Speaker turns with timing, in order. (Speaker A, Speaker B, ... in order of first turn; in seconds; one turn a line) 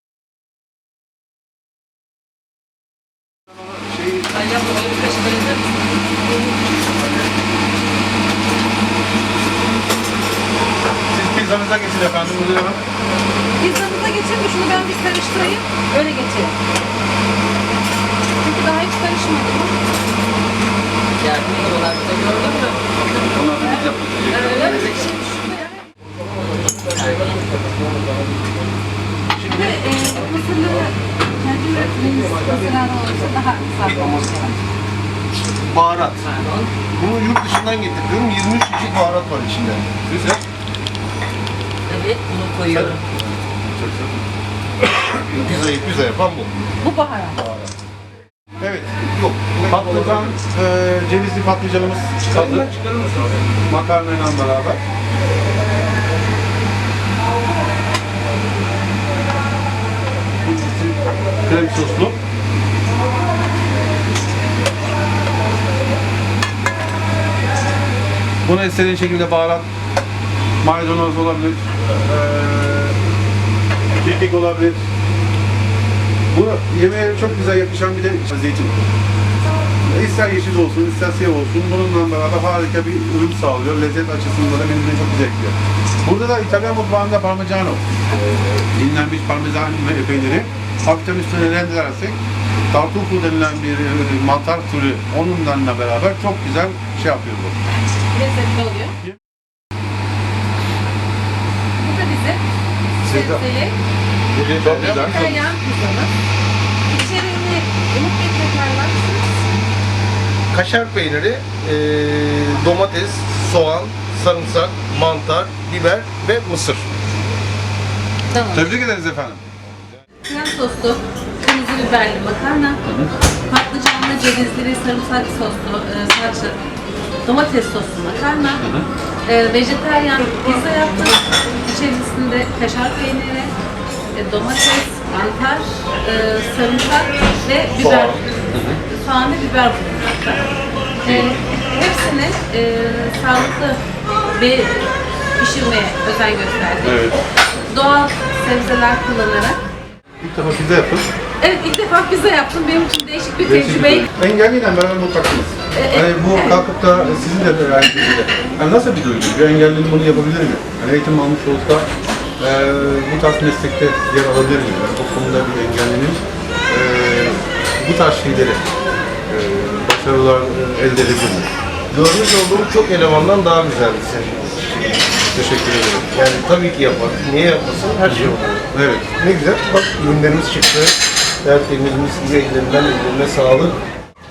Speaker A: 3.7-4.9
Speaker B: 4.3-5.6
Speaker A: 11.1-12.8
Speaker C: 13.6-16.6
Speaker C: 18.4-19.8
Speaker B: 21.2-22.8
Speaker A: 23.1-25.0
Speaker C: 23.6-25.8
Speaker B: 26.8-27.3
Speaker D: 29.4-29.8
Speaker C: 29.4-34.6
Speaker D: 33.9-34.1
Speaker D: 35.5-36.4
Speaker D: 36.9-39.9
Speaker A: 40.1-40.4
Speaker B: 41.9-43.0
Speaker A: 42.7-44.2
Speaker D: 44.9-46.5
Speaker C: 46.8-47.5
Speaker A: 48.6-49.0
Speaker D: 49.0-50.4
Speaker A: 49.6-52.7
Speaker D: 52.3-53.3
Speaker A: 53.7-54.8
Speaker A: 60.4-62.2
Speaker A: 68.5-69.7
Speaker A: 70.6-73.0
Speaker A: 74.0-74.8
Speaker A: 76.3-78.7
Speaker A: 79.8-87.8
Speaker A: 88.7-92.2
Speaker A: 92.7-97.6
Speaker C: 98.1-98.9
Speaker C: 101.8-102.4
Speaker C: 103.0-103.8
Speaker A: 103.0-103.4
Speaker A: 104.3-105.4
Speaker D: 104.6-105.1
Speaker C: 104.6-106.1
Speaker C: 106.9-109.5
Speaker D: 110.5-116.9
Speaker C: 118.3-118.7
Speaker A: 118.5-119.4
Speaker C: 120.2-122.8
Speaker A: 122.8-123.1
Speaker C: 123.5-126.6
Speaker C: 127.2-128.6
Speaker A: 128.6-128.9
Speaker C: 129.2-133.5
Speaker C: 134.1-140.4
Speaker A: 137.8-138.8
Speaker C: 141.0-143.8
Speaker A: 141.0-141.4
Speaker C: 144.3-147.1
Speaker A: 146.8-147.2
Speaker C: 147.7-149.6
Speaker A: 150.2-151.1
Speaker C: 151.4-154.1
Speaker A: 153.4-161.9
Speaker C: 155.7-156.7
Speaker A: 162.4-168.6
Speaker A: 169.3-171.5
Speaker D: 171.9-175.0
Speaker A: 175.3-176.1
Speaker D: 176.1-178.6
Speaker A: 178.1-179.1
Speaker D: 179.1-183.8